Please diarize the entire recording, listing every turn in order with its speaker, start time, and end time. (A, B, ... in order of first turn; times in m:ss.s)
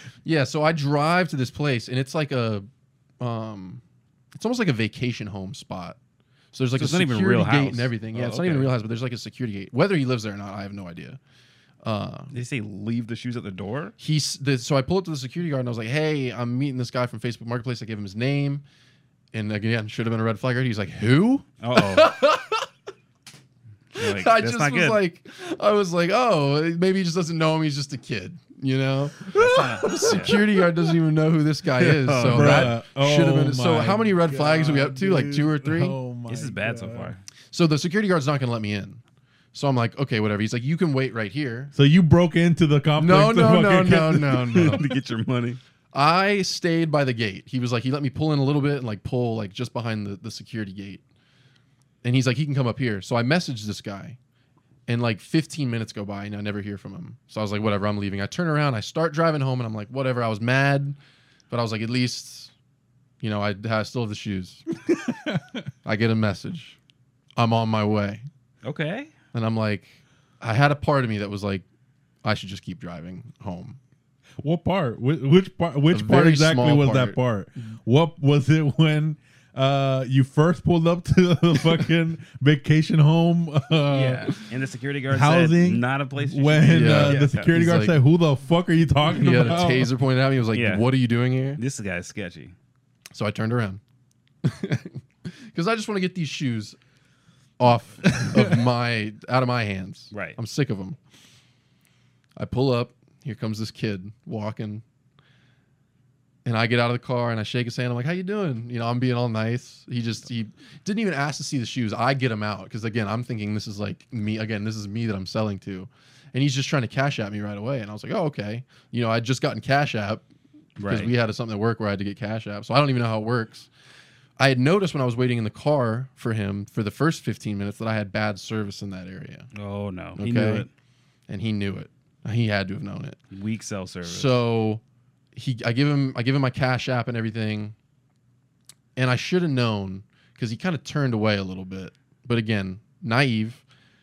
0:00.2-0:02.7 A
0:03.2-0:03.8 A
0:04.3-0:06.0 A
0:06.5-0:11.2 A
0:06.8-0:08.7 B
0:11.8-0:12.3 A
0:12.3-0:13.9 B
0:14.0-0:18.6 A
0:19.3-0:22.7 A
0:21.6-0:22.1 B
0:23.9-0:25.0 B
0:23.9-0:36.0 A
0:29.3-0:30.4 C
0:29.3-0:30.4 B
0:31.8-0:32.7 B
0:32.2-0:37.1 C
0:36.3-0:37.2 B
0:37.5-0:39.0 A
0:39.5-0:41.7 A
0:41.7-0:44.8 C
0:43.0-0:44.8 A
0:44.5-0:45.6 B
0:45.9-0:51.0 A
0:52.0-0:54.2 A
0:54.9-1:01.0 A
1:01.5-1:02.5 A
1:03.2-1:04.6 A
1:04.9-1:05.6 C
1:05.8-1:06.8 A
1:07.4-1:08.2 A
1:08.6-1:09.1 B
1:09.3-1:11.6 A
1:12.2-1:13.8 A
1:14.4-1:24.4 C
1:15.9-1:17.2 A
1:23.9-1:27.5 B
1:25.1-1:29.9 C
1:26.7-1:28.0 A
1:29.1-1:31.6 A
1:30.5-1:30.9 B
1:31.6-1:32.5 B
1:33.1-1:33.8 A
1:34.4-1:36.8 A
1:37.6-1:41.0 A
1:38.1-1:38.6 C
1:40.1-1:40.4 B
1:42.4-1:44.8 A
1:46.4-2:00.2 A
2:00.8-2:01.1 B
2:00.8-2:03.7 A
2:04.4-2:09.5 A
2:09.5-2:10.7 B
2:10.2-2:10.7 A
2:11.3-2:13.2 A
2:13.3-2:14.4 B
2:14.0-2:14.8 A
2:15.3-2:17.7 A
2:19.0-2:23.6 A